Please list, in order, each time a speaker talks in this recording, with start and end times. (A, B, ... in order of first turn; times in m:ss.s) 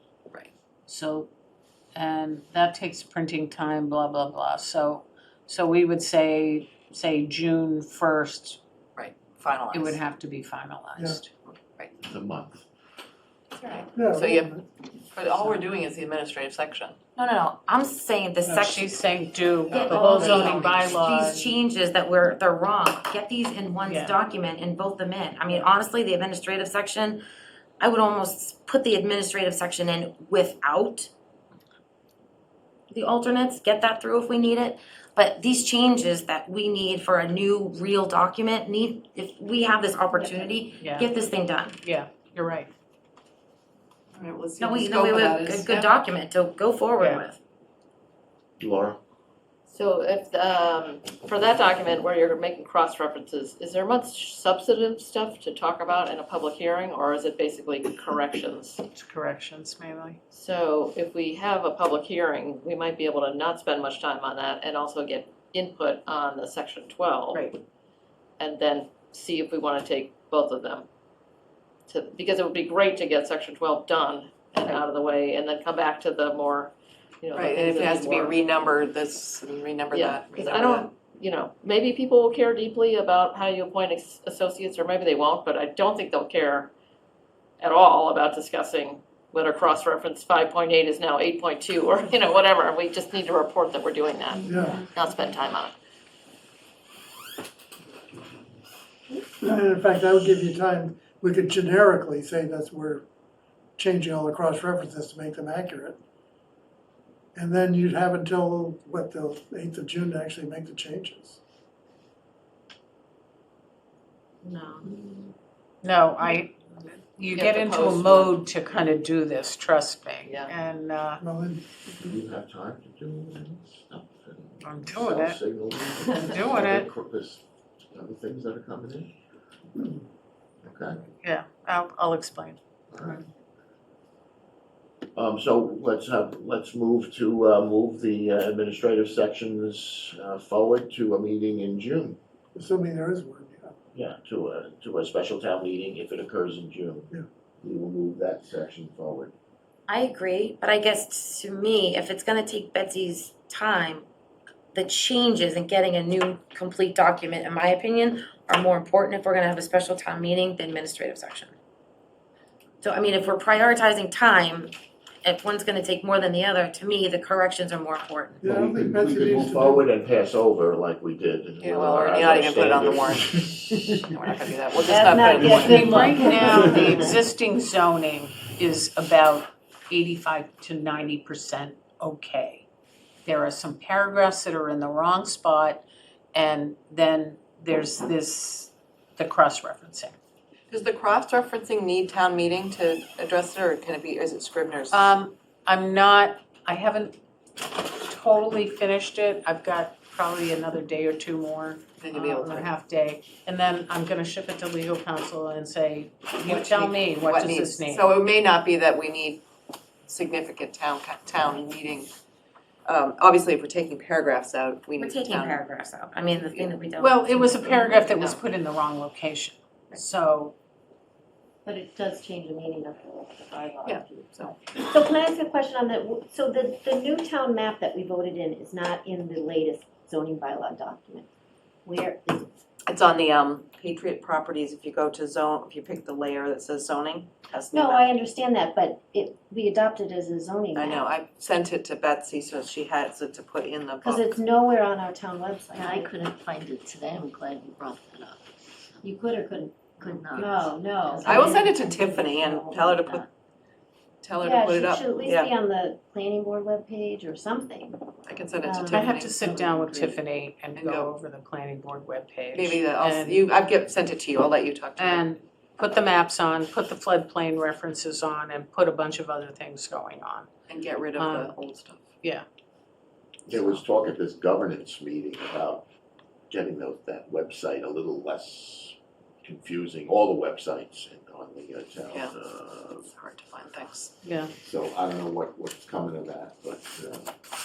0:00.9-0:01.3 A
0:02.0-0:08.6 A
0:09.0-0:10.0 B
0:09.7-0:11.3 A
0:11.3-0:11.9 B
0:12.0-0:12.6 C
0:13.6-0:17.0 B
0:14.0-0:14.5 D
0:17.2-0:18.9 E
0:18.5-0:21.6 A
0:19.7-0:21.0 B
0:19.7-0:27.2 E
0:23.8-0:24.2 A
0:27.8-0:31.1 E
0:32.9-0:41.8 E
0:40.8-0:41.1 A
0:41.8-0:42.7 A
0:44.1-0:46.0 B
0:44.6-0:47.4 E
0:47.0-0:47.2 A
0:48.6-0:49.0 C
0:49.7-0:58.8 F
0:59.0-1:00.2 A
1:00.3-1:07.5 F
1:08.4-1:10.9 F
1:11.9-1:18.4 F
1:17.3-1:20.9 B
1:19.9-1:26.7 F
1:27.6-1:35.8 F
1:34.4-1:34.9 D
1:39.4-1:43.0 D
1:43.8-1:46.0 D
1:47.4-1:51.4 D
1:54.4-1:55.2 F
1:55.8-2:01.2 A
1:57.4-1:58.4 F
2:00.3-2:00.5 F
2:01.2-2:01.6 D
2:02.0-2:09.1 C
2:04.6-2:05.4 A
2:06.1-2:06.9 A
2:10.6-2:11.0 C
2:11.2-2:13.1 A
2:12.9-2:13.2 C
2:15.2-2:22.2 C
2:22.6-2:23.7 D
2:23.9-2:27.1 C
2:27.6-2:29.3 C
2:29.9-2:34.0 E
2:34.7-2:41.5 E
2:42.8-2:48.4 E
2:48.4-2:49.8 D
2:48.4-2:54.1 C
2:51.6-2:55.9 B
2:54.8-2:57.0 G
2:55.5-3:02.6 A
3:03.2-3:10.2 A
3:10.7-3:15.0 B
3:14.9-3:17.2 A
3:17.8-3:28.1 A
3:22.0-3:22.7 B
3:26.4-3:29.4 B
3:30.1-3:32.1 B
3:32.9-3:35.6 B
3:35.0-3:38.0 E
3:36.4-3:36.8 B
3:37.0-3:40.5 A
3:37.7-3:38.5 B
3:41.6-3:51.3 G
3:43.8-3:44.8 B
3:51.8-3:52.6 G
3:52.8-3:58.2 B
3:57.7-4:01.1 G
4:00.8-4:04.4 B
4:04.0-4:06.1 G
4:05.7-4:09.1 H
4:09.0-4:13.2 G
4:10.0-4:11.3 H
4:11.2-4:13.3 B
4:14.2-4:15.6 B
4:14.4-4:18.1 G
4:18.2-4:19.5 B
4:18.6-4:20.1 G
4:18.9-4:23.4 A
4:19.1-4:19.9 H
4:20.8-4:21.1 B
4:22.5-4:25.2 B
4:25.0-4:30.5 A
4:30.7-4:32.1 B
4:31.2-4:31.6 A
4:33.5-4:35.8 C
4:36.5-4:43.1 C
4:42.1-4:42.4 B
4:43.0-4:44.2 B
4:44.2-4:44.5 A
4:44.6-4:47.3 C